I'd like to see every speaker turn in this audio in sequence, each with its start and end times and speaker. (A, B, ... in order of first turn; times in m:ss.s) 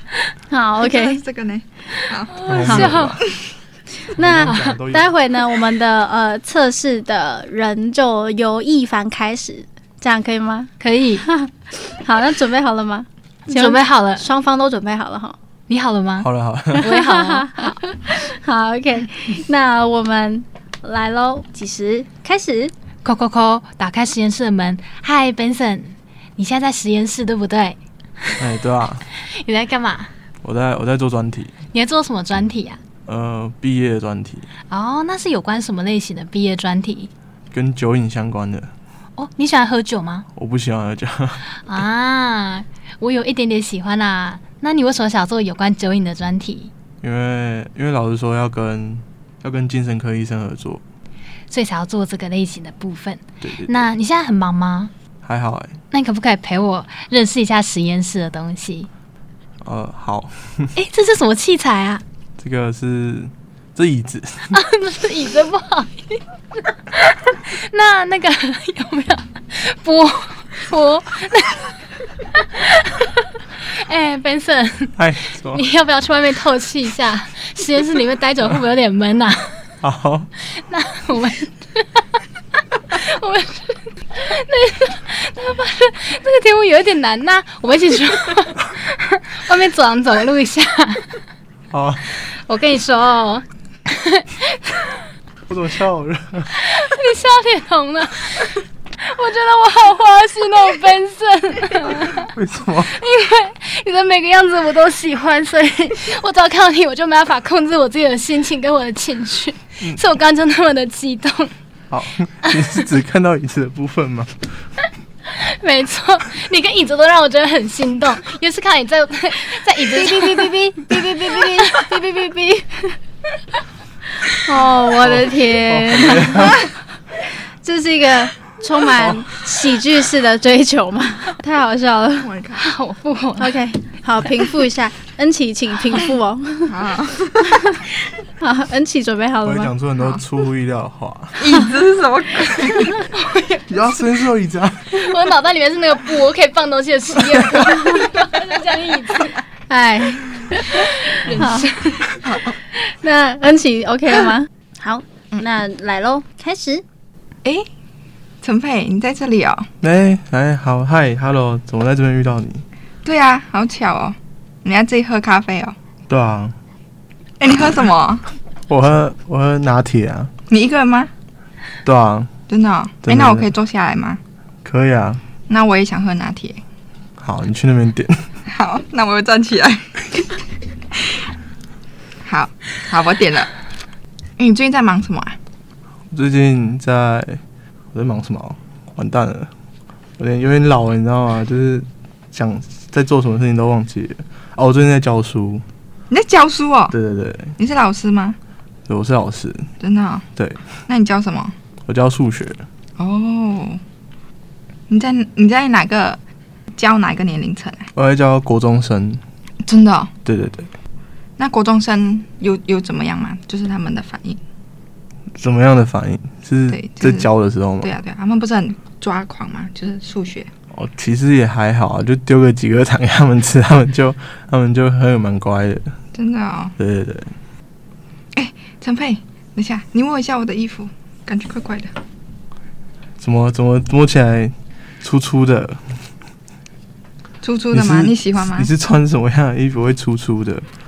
0:00.5-0:01.2 A
0:00.8-0:02.5 B
0:02.3-0:03.2 C
0:02.4-0:03.3 D
0:02.7-0:03.0 A
0:04.1-0:05.1 D
0:04.2-0:10.7 A
0:04.4-0:04.8 C
0:10.8-0:11.3 C
0:11.2-0:15.4 A
0:13.5-0:14.2 C
0:15.7-0:16.3 C
0:16.2-0:16.9 D
0:16.8-0:22.7 A
0:16.8-0:17.8 C
0:23.0-0:28.5 C
0:28.4-0:29.1 D
0:29.3-0:30.1 C
0:30.4-0:31.5 D
0:31.7-0:32.8 C
0:33.1-0:34.5 D
0:34.7-0:37.1 C
0:37.5-0:38.7 D
0:39.2-0:40.3 C
0:40.4-0:41.6 D
0:41.7-0:46.7 C
0:47.0-0:50.8 D
0:51.5-0:54.9 C
0:53.4-0:53.8 D
0:55.2-0:55.8 D
0:55.9-0:58.9 C
0:59.6-1:00.8 D
1:00.8-1:02.0 C
1:02.4-1:04.6 D
1:04.5-1:19.6 C
1:15.0-1:15.6 D
1:19.8-1:20.3 D
1:20.5-1:22.2 C
1:22.9-1:31.2 C
1:31.7-1:32.1 D
1:32.2-1:35.0 C
1:35.5-1:36.6 D
1:36.6-1:42.3 C
1:42.1-1:43.0 D
1:42.9-1:51.5 C
1:51.9-1:54.5 D
1:55.3-2:01.8 C
1:59.9-2:03.0 A
2:04.2-2:06.7 A
2:05.0-2:06.7 D
2:07.6-2:12.3 A
2:09.0-2:09.3 D
2:12.2-2:12.7 B
2:12.6-2:13.6 C
2:13.4-2:16.8 A
2:16.7-2:17.7 B
2:17.4-2:17.8 A
2:18.4-2:19.7 A
2:19.4-2:21.6 D
2:21.4-2:23.1 B
2:23.1-2:23.6 C
2:23.7-2:25.2 D
2:24.9-2:29.4 C
2:27.3-2:27.7 D
2:29.7-2:31.7 A
2:30.7-2:32.2 C
2:32.2-2:32.6 B
2:32.8-2:36.8 A
2:38.4-2:39.7 B
2:39.8-2:42.6 D
2:43.0-2:45.8 B
2:46.1-2:46.6 D
2:47.4-2:48.3 B
2:48.7-2:50.3 D
2:50.5-2:51.1 B
2:51.8-2:52.3 D
2:52.5-2:54.2 B
2:53.0-2:53.5 D
2:54.6-2:55.2 D
2:55.5-2:56.6 B
2:57.2-2:58.3 D
2:58.5-3:00.4 B
3:02.2-3:03.6 B
3:04.4-3:05.4 B
3:06.1-3:07.4 D
3:07.9-3:09.5 D
3:10.2-3:15.6 D
3:16.1-3:17.0 B
3:16.9-3:17.6 D
3:17.6-3:18.4 B
3:18.9-3:19.7 D
3:19.8-3:20.3 B
3:20.4-3:20.6 D
3:20.9-3:21.6 B
3:21.9-3:22.6 D
3:23.0-3:23.8 B
3:24.9-3:26.2 B
3:26.7-3:27.9 B
3:28.0-3:29.2 D
3:29.6-3:30.1 B
3:30.2-3:30.7 D
3:31.4-3:34.4 B
3:35.4-3:37.9 D
3:36.7-3:40.5 B
3:40.7-3:46.0 D
3:46.1-3:46.8 B
3:46.8-3:47.3 D
3:48.3-3:51.9 B
3:53.2-3:56.0 D
3:57.4-3:58.7 B
3:57.7-4:00.7 D